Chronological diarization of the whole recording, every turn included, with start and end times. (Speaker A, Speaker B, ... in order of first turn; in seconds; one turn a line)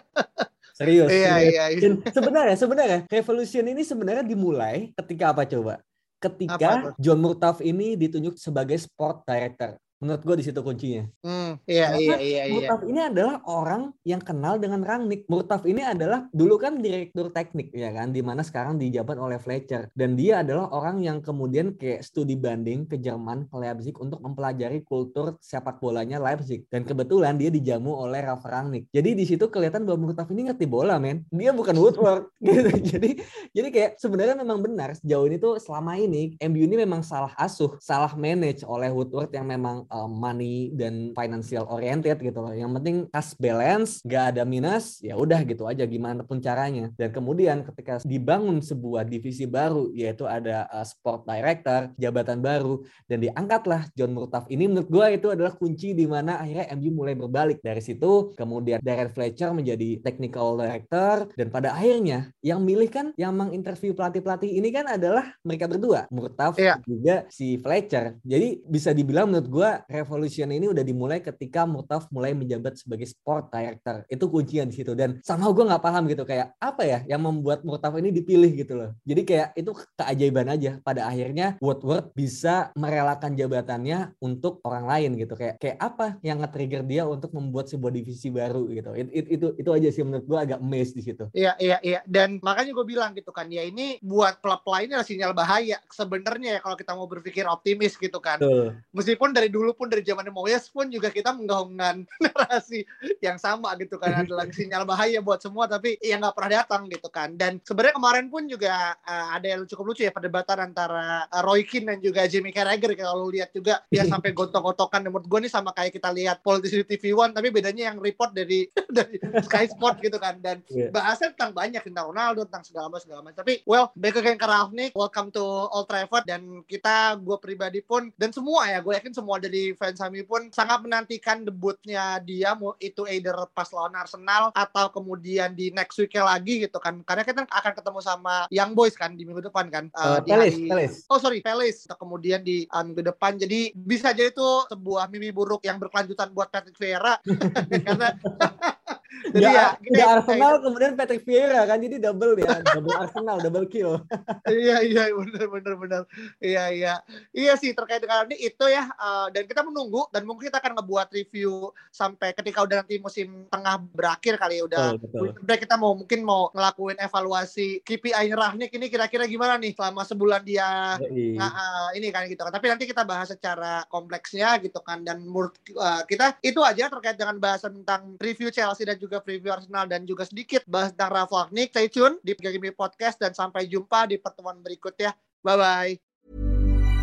Speaker A: 0.1-0.4
Speaker B: 0.8-11.1
Speaker A: 1.1-2.1
Speaker A: 6.5-6.9
Speaker A: 11.2-12.7
Speaker B: 11.8-91.3
Speaker A: 91.4-150.5
Speaker B: 98.4-98.8
Speaker B: 104.1-104.5
Speaker B: 119.3-119.9
Speaker B: 140.0-141.0
Speaker B: 147.4-148.4
Speaker B: 149.3-154.4
Speaker A: 154.5-170.7
Speaker B: 164.8-165.3
Speaker B: 171.0-171.5
Speaker A: 171.4-186.0